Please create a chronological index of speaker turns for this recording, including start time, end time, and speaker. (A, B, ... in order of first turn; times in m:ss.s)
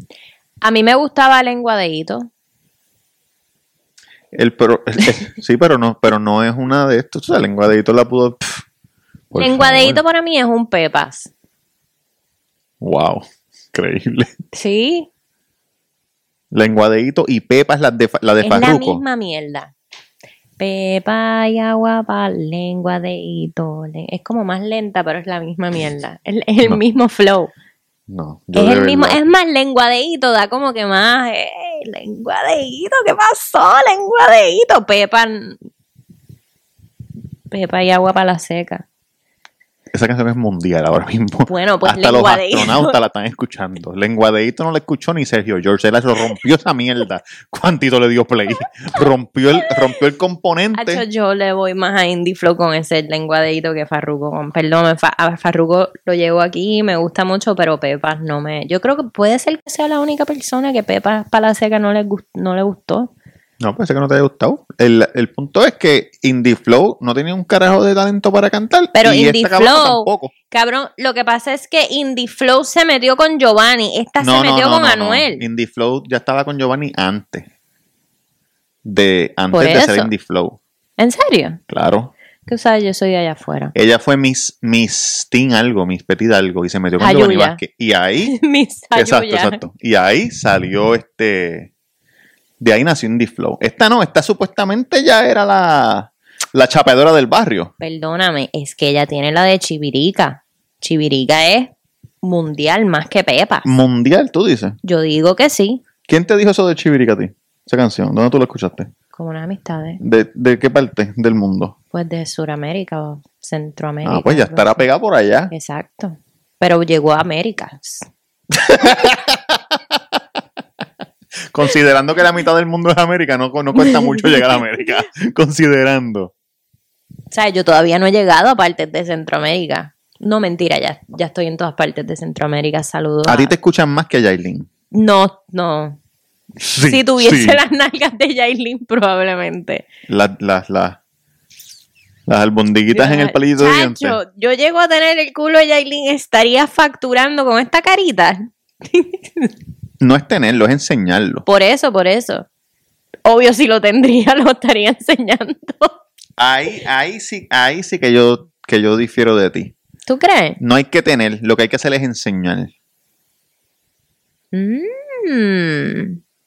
0:00.6-0:02.3 A
0:04.3-0:08.6 B
0:09.3-0:10.0 B
0:09.4-0:11.3 A
0:12.8-0:14.3 B
0:14.5-0:15.1 A
0:16.5-0:19.0 B
0:18.4-0:19.7 A
0:20.6-0:27.5 A
0:28.1-0:29.2 B
0:28.5-0:35.6 A
0:37.5-0:38.8 A
0:39.9-0:51.0 B
0:41.5-0:42.9 A
0:50.8-1:03.1 A
1:03.6-1:10.3 B
1:08.9-1:15.4 A
1:14.2-1:17.5 B
1:18.8-1:20.6 B
1:19.5-1:20.1 A
1:21.0-1:21.6 A
1:21.7-1:22.1 B
1:22.5-1:23.7 A
1:23.7-1:28.3 B
1:27.0-1:27.6 A
1:28.2-1:29.6 A
1:28.9-1:31.7 B
1:32.6-1:37.7 B
1:37.8-1:43.6 A
1:43.6-1:44.8 B
1:44.8-1:45.8 A
1:46.1-1:48.9 B
1:49.1-1:50.0 A
1:50.0-1:51.7 B
1:51.9-1:54.8 A
1:54.0-1:55.5 B
1:55.5-1:58.1 A
1:58.5-1:59.6 B
2:01.5-2:06.3 B
2:07.3-2:13.5 A
2:13.2-2:14.7 B
2:14.9-2:16.0 A
2:16.6-2:17.6 B
2:16.8-2:19.9 A
2:20.1-2:21.0 B
2:22.3-2:24.2 B
2:22.9-2:29.5 A
2:30.0-2:31.4 B
2:31.4-2:32.4 A
2:33.2-2:35.9 A
2:36.4-2:39.7 B
2:40.1-2:40.6 A
2:40.6-2:42.7 B
2:44.5-2:46.2 A